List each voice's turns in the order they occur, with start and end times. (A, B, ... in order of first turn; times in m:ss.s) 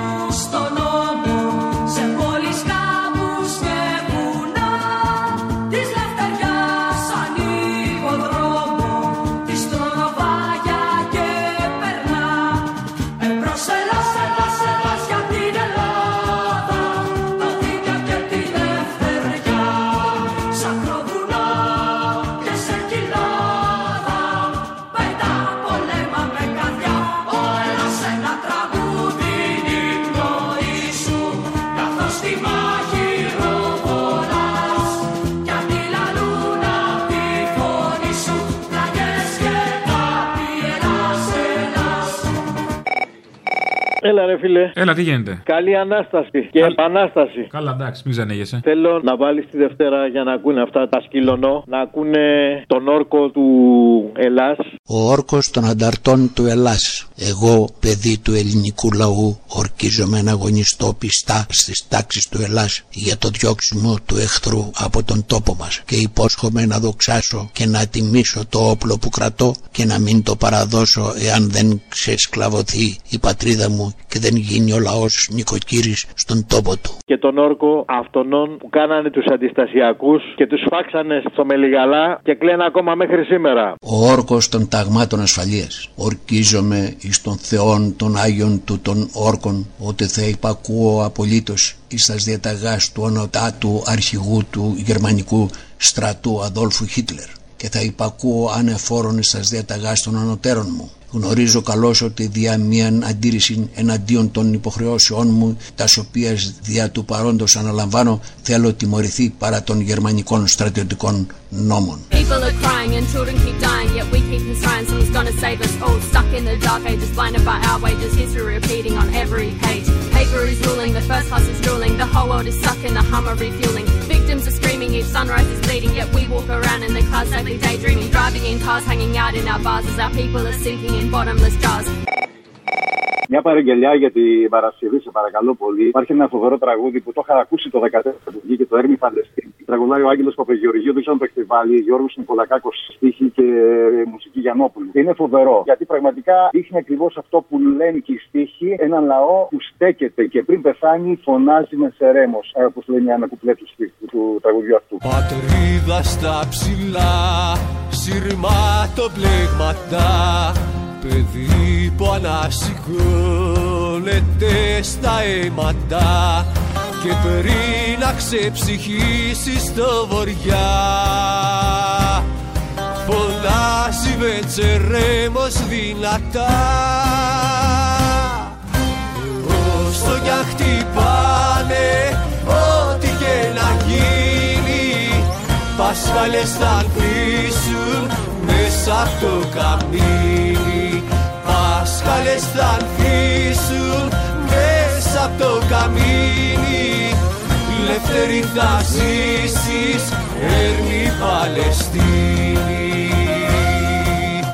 0:44.0-0:44.7 A
0:44.7-0:45.4 B
0:45.5-0:47.5 A
0:46.6-0:46.8 B
0:47.5-0:48.6 B
0:48.6-0:54.7 A
0:54.9-1:17.0 C
1:17.1-1:23.7 A
1:23.8-1:52.0 C
1:52.1-2:11.9 D
2:13.3-2:35.0 E
2:35.0-2:46.5 F
2:47.0-2:52.2 F
2:53.0-2:58.2 F
2:59.4-3:23.9 F